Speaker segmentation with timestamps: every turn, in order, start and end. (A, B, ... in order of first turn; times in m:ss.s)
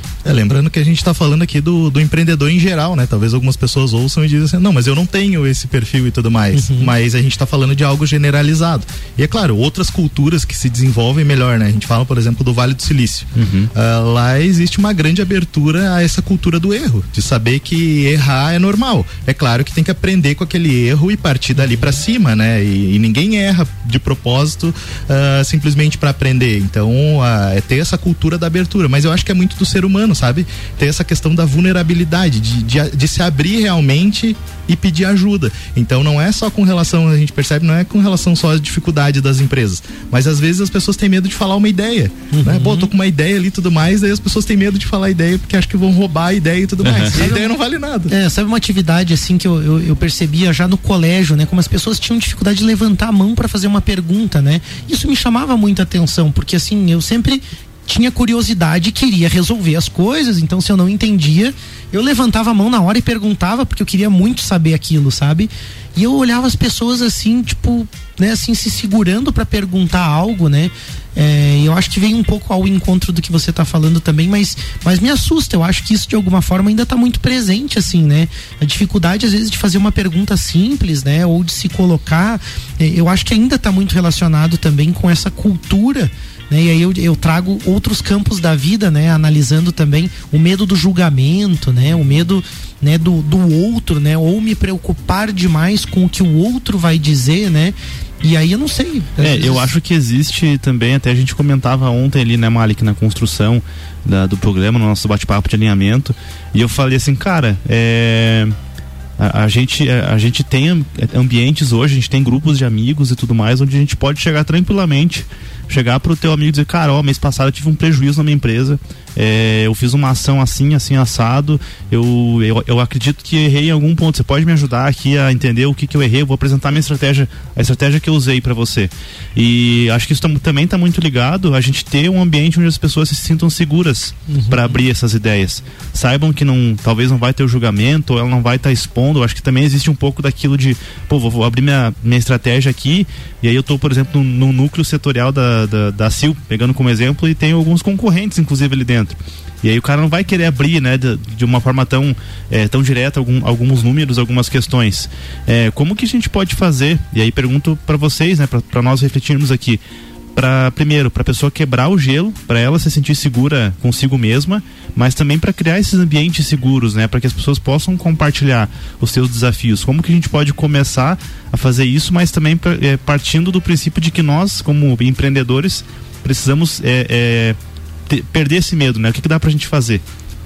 0:00.2-0:48.1 A
0:06.5-0:06.9 B
0:13.4-0:13.7 C
0:42.3-0:42.9 B
0:46.8-0:47.2 C
0:47.1-0:47.5 B
0:48.1-1:39.7 B
1:39.2-1:48.5 C
1:49.2-2:39.8 C
2:14.3-2:14.8 B
2:40.4-2:57.6 C
2:58.1-3:00.0 C